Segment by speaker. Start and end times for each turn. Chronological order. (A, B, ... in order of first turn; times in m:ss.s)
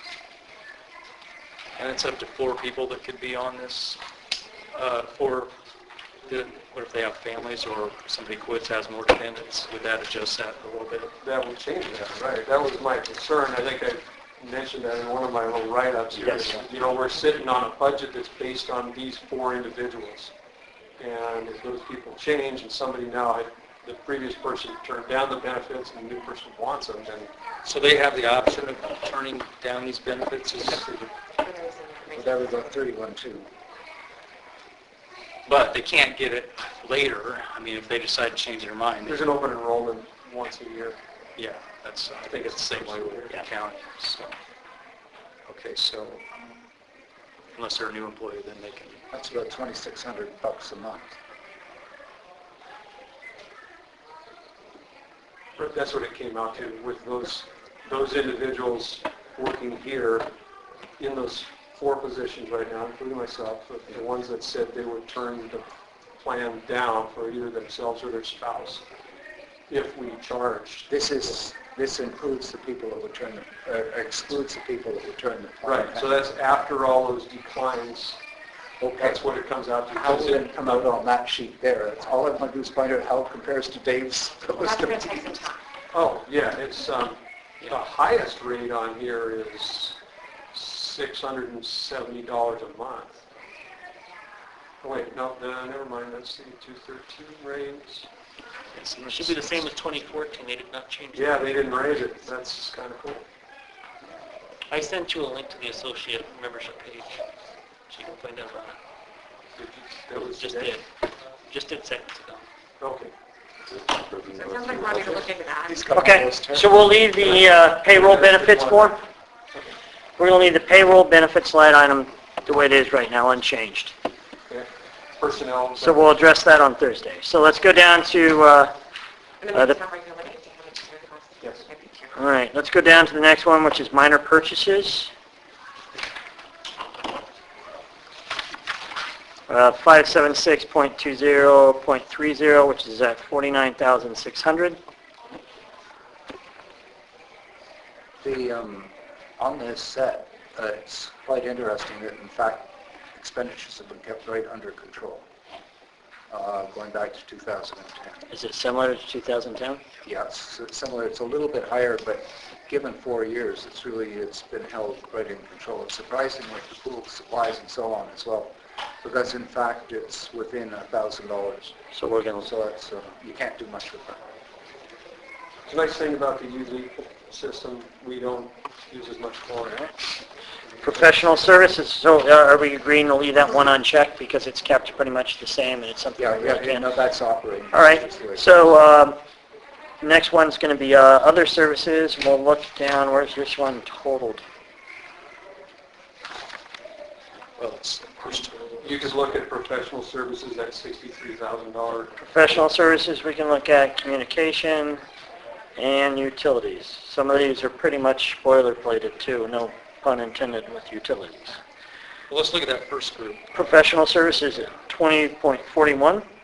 0:01.8-0:04.0 A
0:04.7-0:05.5 A
0:06.2-0:11.1 A
0:11.2-0:20.3 B
0:16.2-0:16.6 C
0:21.0-0:27.3 B
0:27.6-0:30.9 A
0:30.6-0:31.1 B
0:31.3-0:32.6 D
0:32.1-0:33.5 E
0:35.4-0:39.2 A
0:39.0-0:41.0 B
0:41.4-0:44.3 A
0:42.2-0:43.4 B
0:45.5-0:46.2 A
0:47.5-0:49.0 A
0:49.1-0:51.2 E
0:55.6-1:00.3 B
1:01.0-1:05.7 B
1:06.2-1:08.8 B
1:09.7-1:10.9 B
1:10.9-1:16.2 E
1:15.6-1:18.2 B
1:18.8-1:19.2 E
1:19.0-1:20.6 B
1:19.9-1:25.5 E
1:24.6-1:25.6 D
1:25.9-1:30.0 B
1:30.5-1:33.1 B
1:34.8-1:38.1 B
1:38.7-1:39.7 A
1:38.7-1:42.2 F
1:41.1-1:43.2 B
1:44.7-1:47.3 F
1:47.9-1:48.8 F
1:49.6-1:50.8 B
1:50.1-1:50.9 F
1:51.5-1:52.4 F
1:52.8-1:53.1 B
1:54.3-1:55.8 D
1:54.6-1:56.9 E
1:55.9-1:59.0 C
1:57.2-1:59.0 B
2:00.2-2:03.9 C
2:04.5-2:06.1 B
2:05.8-2:08.7 C
2:09.4-2:12.1 D
2:09.5-2:09.8 C
2:11.4-2:11.6 B
2:12.1-2:15.1 C
2:19.5-2:24.8 C
2:28.2-2:35.2 E
2:36.3-2:38.2 E
2:38.3-2:39.8 C
2:40.0-2:51.8 E
2:51.9-2:52.5 C
2:52.4-2:54.3 E
2:55.6-2:59.9 B
3:00.8-3:06.9 C
3:06.2-3:08.5 E
3:07.7-3:09.2 C
3:10.0-3:14.4 C
3:17.6-3:19.1 A
3:18.8-3:22.2 B
3:22.2-3:25.0 C
3:25.8-3:31.6 C
3:32.3-3:33.5 A
3:33.5-3:36.2 C